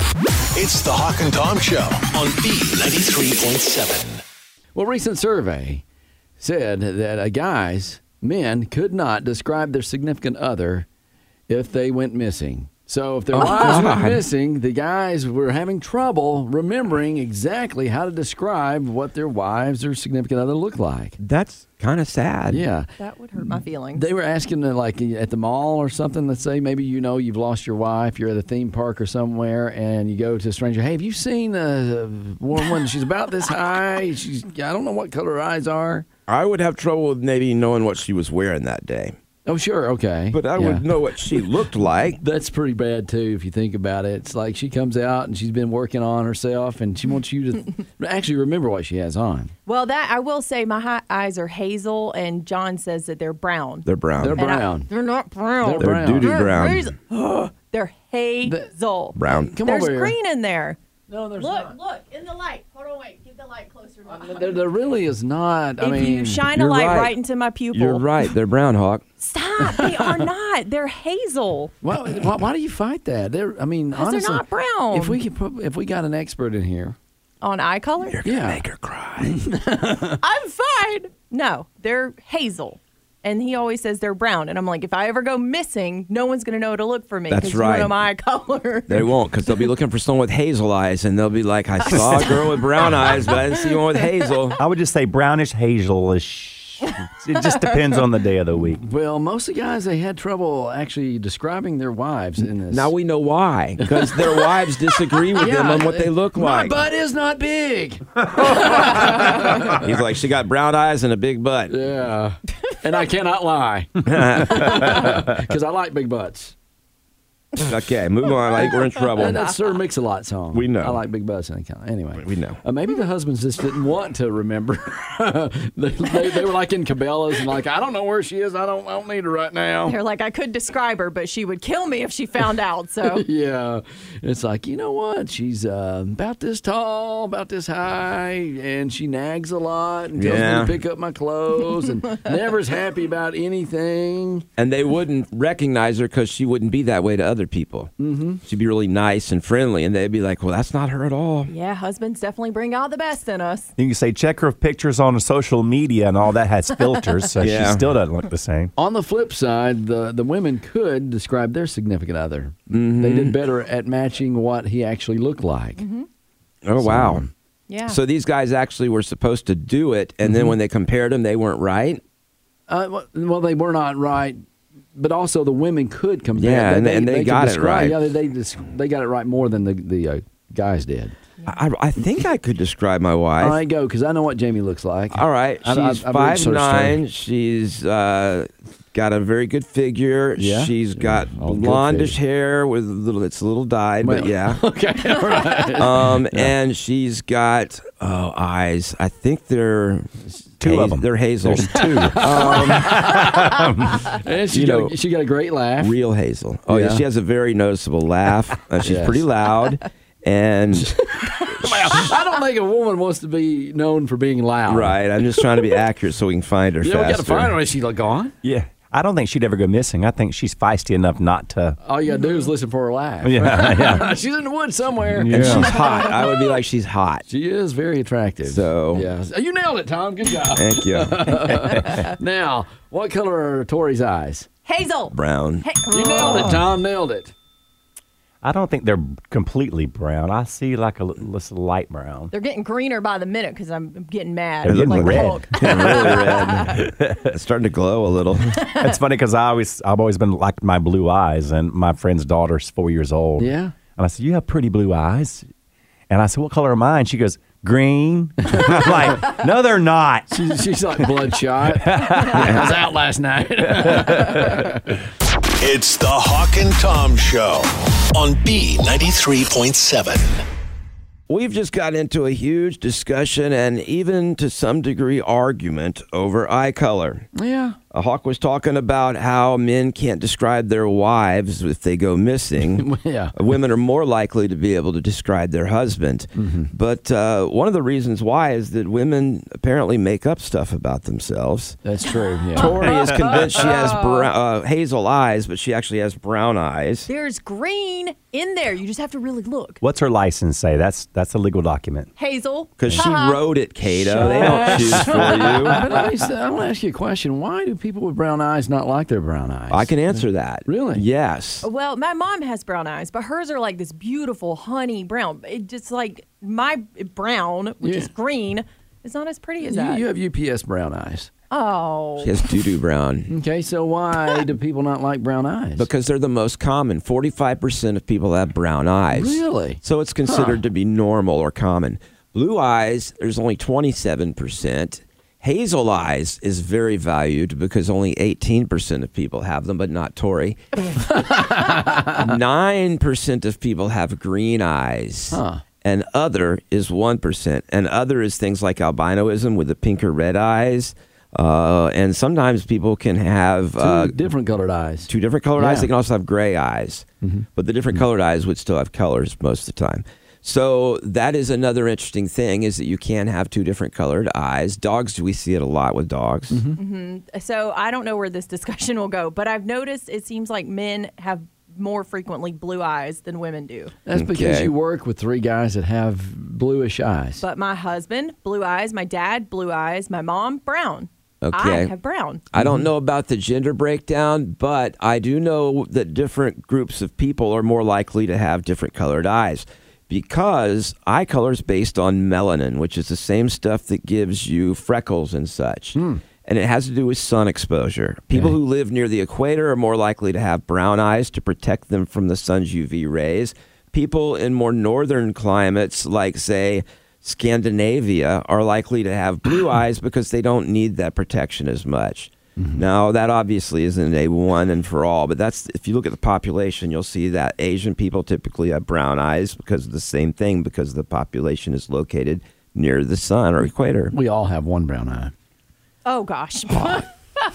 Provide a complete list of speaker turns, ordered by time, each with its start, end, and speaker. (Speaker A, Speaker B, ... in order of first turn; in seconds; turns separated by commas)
Speaker A: 0.5-4.2, Speaker B: 4.7-5.8, Speaker B: 6.4-10.9, Speaker B: 11.5-21.2, Speaker C: 13.3-14.2, Speaker D: 13.3-14.0, Speaker C: 21.2-22.6, Speaker B: 22.5-36.0, Speaker D: 23.0-24.1, Speaker C: 36.3-39.1, Speaker B: 39.5-41.5, Speaker C: 40.3-42.2, Speaker B: 42.2-49.5, Speaker D: 49.7-60.8, Speaker C: 53.9-54.4, Speaker B: 54.2-54.9, Speaker B: 55.6-56.4, Speaker C: 55.8-56.9, Speaker B: 58.4-58.7, Speaker C: 59.2-59.5, Speaker B: 59.3-60.1, Speaker B: 61.1-61.8, Speaker D: 61.4-64.8, Speaker B: 64.1-66.5, Speaker D: 65.8-68.1, Speaker C: 66.5-67.1, Speaker C: 67.7-69.0, Speaker D: 69.2-71.7, Speaker B: 69.6-70.2, Speaker B: 71.8-77.0, Speaker D: 73.9-75.2, Speaker D: 77.4-78.2, Speaker C: 78.1-79.4, Speaker B: 78.2-78.6, Speaker B: 79.2-80.2, Speaker D: 80.2-89.1, Speaker C: 87.3-87.9, Speaker C: 88.9-94.6, Speaker E: 94.6-98.8, Speaker B: 98.8-102.9, Speaker C: 102.7-106.8, Speaker B: 103.8-104.5, Speaker B: 105.3-109.8, Speaker C: 108.5-111.7, Speaker B: 111.7-116.5, Speaker C: 114.0-115.2, Speaker C: 117.6-119.5, Speaker B: 119.1-130.0, Speaker C: 120.5-121.0, Speaker C: 122.2-122.6, Speaker D: 129.8-133.2, Speaker B: 133.0-144.4, Speaker C: 140.2-140.8, Speaker C: 144.6-147.9, Speaker B: 148.0-148.4, Speaker C: 148.4-151.5, Speaker D: 151.5-153.7, Speaker E: 153.8-158.7, Speaker C: 157.4-157.9, Speaker B: 158.8-165.8, Speaker C: 162.7-163.4, Speaker D: 165.8-166.1, Speaker C: 166.6-167.2, Speaker B: 166.8-167.2, Speaker D: 167.7-168.0, Speaker C: 167.9-172.0, Speaker B: 170.2-170.5, Speaker B: 172.7-174.4, Speaker B: 174.9-181.1, Speaker C: 176.3-178.1, Speaker C: 181.5-183.6, Speaker B: 183.4-187.0, Speaker C: 185.1-194.6, Speaker B: 190.4-192.2, Speaker B: 194.0-196.5, Speaker C: 195.8-203.2, Speaker E: 200.6-204.0, Speaker B: 201.5-205.9, Speaker C: 204.5-204.9, Speaker C: 205.8-212.1, Speaker B: 206.7-207.0, Speaker B: 208.8-209.2, Speaker B: 210.7-215.4, Speaker C: 214.7-217.6, Speaker B: 216.8-218.3, Speaker E: 218.4-221.8, Speaker B: 221.8-225.7, Speaker D: 222.2-222.5, Speaker E: 223.2-224.1, Speaker E: 225.1-225.7, Speaker C: 225.3-227.2, Speaker D: 225.9-226.4, Speaker B: 227.3-234.5, Speaker C: 228.4-229.1, Speaker C: 230.5-231.5, Speaker D: 234.7-236.6, Speaker C: 235.1-235.6, Speaker B: 235.9-237.3, Speaker E: 238.4-242.3, Speaker D: 242.3-246.8, Speaker E: 244.6-247.1, Speaker C: 244.6-248.6, Speaker E: 248.7-255.5, Speaker B: 253.4-253.7, Speaker E: 256.1-260.3, Speaker B: 258.5-258.9, Speaker B: 260.3-264.9, Speaker E: 261.8-262.6, Speaker C: 262.4-262.7, Speaker E: 263.6-264.6, Speaker A: 265.6-270.4, Speaker C: 271.3-277.3, Speaker B: 277.3-277.8, Speaker C: 277.9-291.8, Speaker B: 282.7-283.4, Speaker B: 286.4-286.7, Speaker B: 291.8-292.9, Speaker D: 292.5-294.3, Speaker C: 292.6-297.1, Speaker D: 297.1-299.8, Speaker E: 299.8-302.1, Speaker D: 302.2-303.4, Speaker C: 302.8-305.8, Speaker D: 304.0-305.5, Speaker B: 304.1-311.0, Speaker C: 309.7-311.6, Speaker D: 311.6-320.0, Speaker B: 317.8-318.1, Speaker B: 319.6-321.3, Speaker D: 321.5-322.4, Speaker C: 322.2-323.3, Speaker B: 323.3-325.9, Speaker C: 325.8-340.6, Speaker B: 329.1-330.6, Speaker B: 341.0-342.3, Speaker C: 342.1-354.2, Speaker B: 345.3-345.6, Speaker B: 353.8-355.9, Speaker C: 355.1-366.6, Speaker B: 357.2-358.0, Speaker B: 366.5-366.8, Speaker D: 366.8-373.9, Speaker B: 374.1-377.4, Speaker C: 374.1-374.7, Speaker D: 377.4-382.4, Speaker C: 381.4-381.9, Speaker C: 382.5-424.1, Speaker B: 382.6-382.9, Speaker B: 395.9-396.2, Speaker B: 412.6-412.9, Speaker B: 424.1-425.3, Speaker D: 426.0-427.0